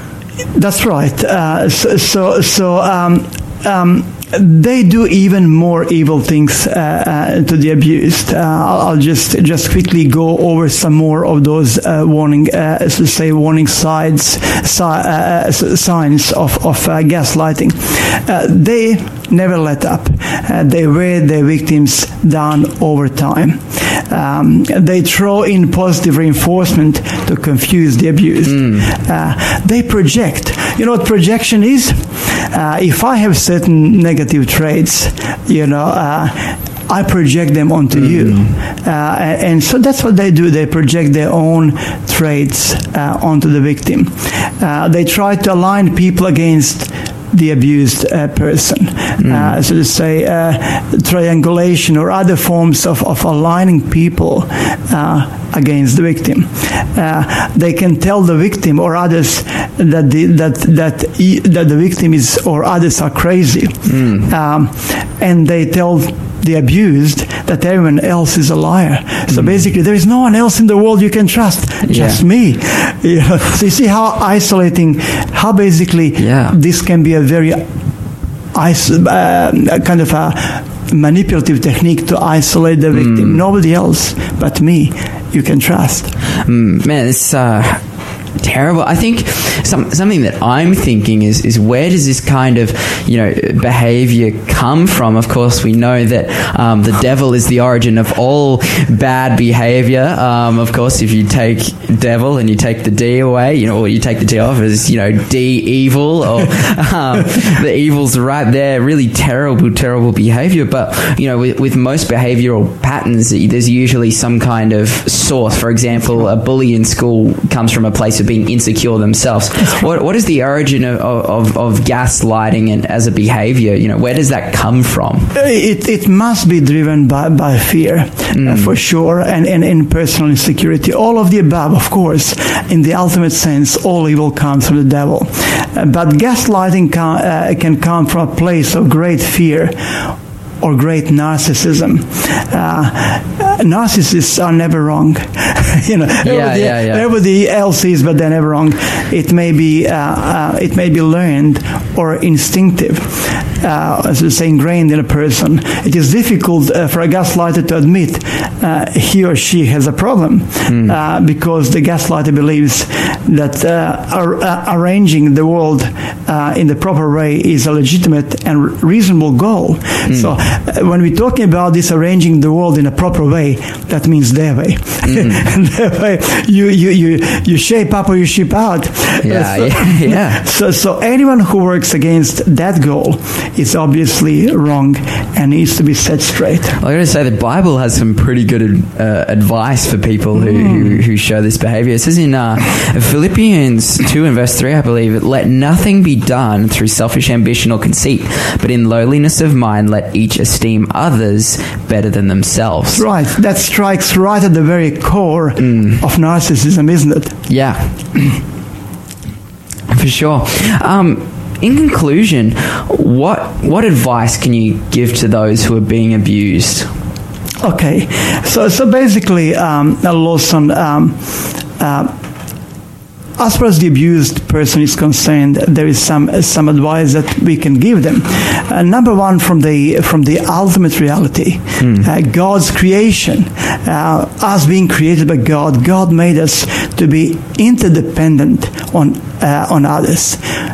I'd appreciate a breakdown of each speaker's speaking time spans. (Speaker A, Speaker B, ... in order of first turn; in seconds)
Speaker A: 0.5-77.6, 78.5-86.1, 125.3-139.8, 140.6-186.8, 190.3-191.0, 202.9-207.4, 217.6-222.1, 223.4-240.4
Speaker B: 28.4-28.9, 37.9-38.5, 49.2-49.5, 63.9-64.3, 69.3-69.7, 71.8-72.2, 76.2-76.6, 82.9-83.4, 86.4-87.8, 88.4-125.3, 128.3-128.7, 146.2-147.0, 160.7-160.9, 170.1-170.3, 175.0-175.4, 179.2-180.4, 186.8-203.1, 205.6-206.0, 207.5-208.3, 209.9-216.9, 231.8-232.1